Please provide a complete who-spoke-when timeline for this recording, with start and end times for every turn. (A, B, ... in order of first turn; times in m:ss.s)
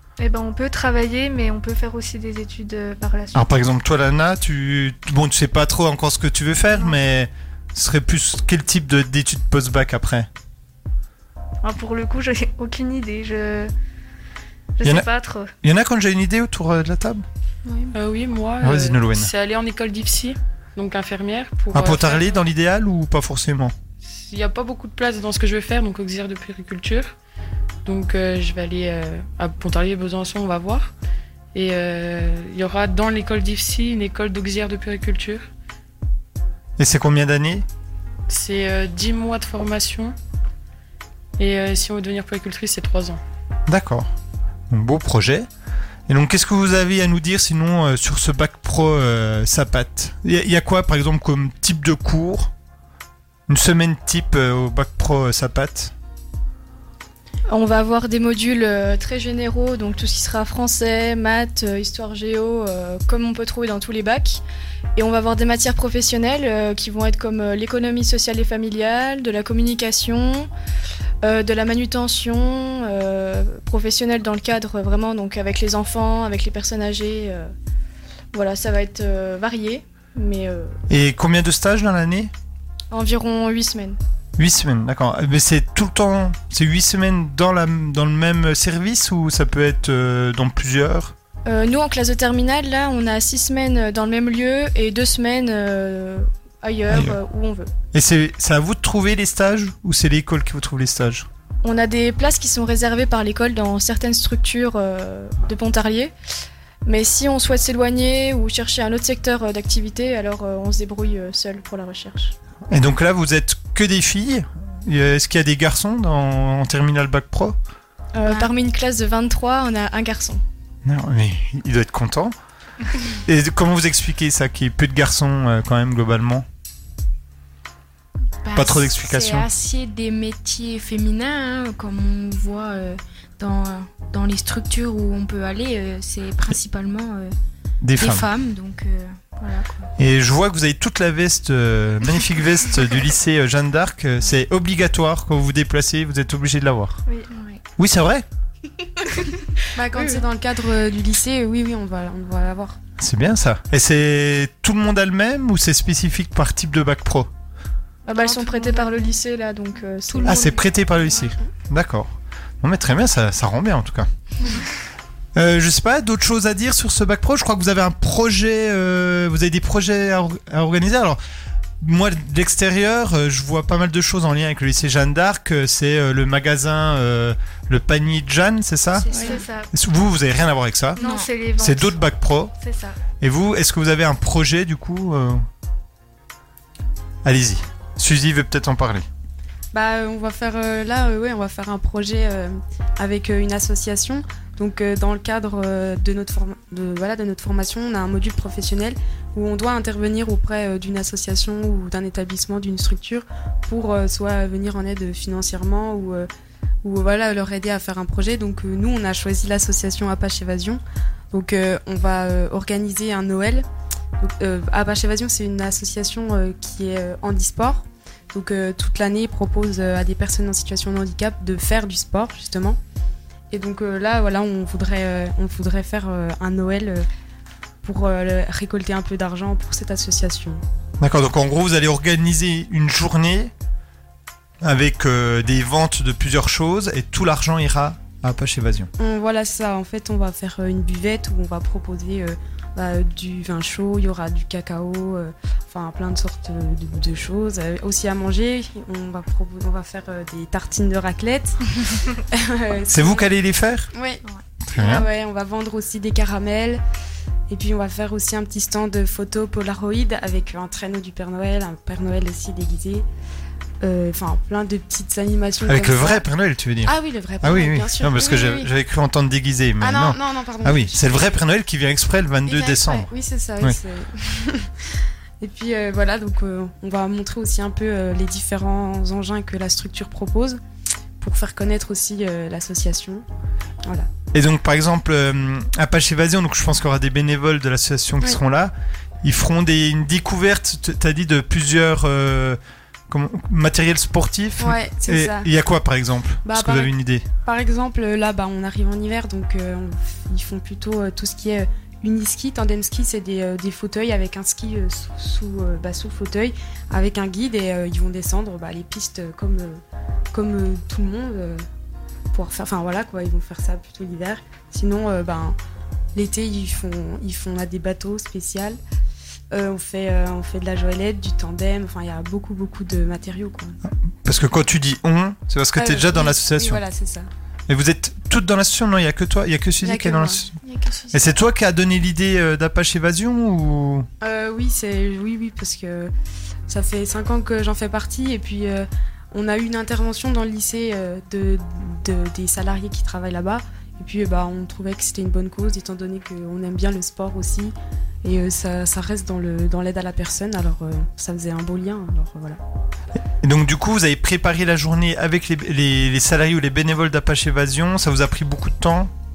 0:00.2-0:03.6 A
0:03.3-0:10.3 B
0:11.6-0:13.7 A
0:14.8-0:15.5 A
0:15.6-0:17.2 B
0:17.6-0:17.9 C
0:17.9-0:22.4 D
0:18.6-0:19.3 B
0:21.7-0:23.7 B
0:24.0-0:27.1 D
0:27.8-0:30.9 D
0:31.5-0:35.4 D
0:36.8-0:37.6 B
0:38.3-0:40.2 D
0:41.4-0:43.2 D
0:43.7-0:44.1 B
0:44.7-0:45.5 B
0:46.1-0:52.5 B
0:53.5-0:55.9 B
0:57.5-1:04.4 E
1:05.0-1:10.5 E
1:11.2-1:17.5 E
1:18.3-1:20.8 E
1:20.9-1:22.3 B
1:22.9-1:24.0 E
1:24.4-1:31.1 B
1:31.4-1:37.7 E
1:36.9-1:37.2 B
1:37.9-1:41.3 B
1:41.6-1:46.1 E
1:46.8-1:52.3 E
1:52.7-1:57.6 B
1:58.1-2:00.4 E
1:58.2-1:58.5 C
2:00.8-2:02.3 B
2:03.2-2:06.4 B
2:08.4-2:17.3 C
2:08.6-2:09.5 B
2:17.8-2:18.2 B
2:18.0-2:19.9 C
2:20.0-2:27.0 B
2:27.3-2:27.6 C
2:27.8-2:28.2 B
2:29.8-2:32.8 F
2:33.0-2:37.3 B
2:38.1-2:40.5 E
2:38.1-2:38.8 F
2:40.1-2:41.3 C
2:40.2-2:44.1 B
2:45.3-2:51.2 B
2:51.8-2:59.1 B
2:58.9-2:59.4 C
2:59.1-2:59.7 A
2:59.7-3:01.0 B
3:01.0-3:01.3 C
3:01.0-3:02.0 A
3:01.6-3:02.5 B
3:02.6-3:03.0 A
3:03.2-3:05.4 B
3:07.2-3:09.1 B
3:09.7-3:26.3 F
3:26.8-3:33.6 F
3:34.2-3:42.8 F
3:43.5-3:47.1 F
3:47.8-3:50.6 F
3:51.0-3:53.5 B
3:54.6-3:58.9 B
3:59.0-4:13.3 F
4:12.9-4:13.9 B
4:13.9-4:16.8 F
4:14.6-4:15.1 B
4:17.5-4:23.1 F
4:23.8-4:26.2 F
4:25.6-4:33.8 B
4:26.8-4:28.7 F
4:29.8-4:31.0 F
4:32.4-4:34.7 F
4:35.4-4:40.6 F
4:41.2-4:43.2 F
4:43.8-4:44.1 F
4:44.3-4:57.2 B
4:54.6-4:55.5 F
4:56.4-5:09.8 F
5:10.3-5:11.6 F
5:12.3-5:15.6 F
5:16.2-5:18.8 F
5:19.5-5:23.8 F
5:23.8-5:26.8 B
5:25.8-5:27.3 F
5:27.7-5:30.5 B
5:29.8-5:30.4 F
5:30.6-5:31.2 C
5:31.1-5:34.1 B
5:34.2-5:36.1 F
5:36.7-5:52.6 F
5:53.4-5:59.1 B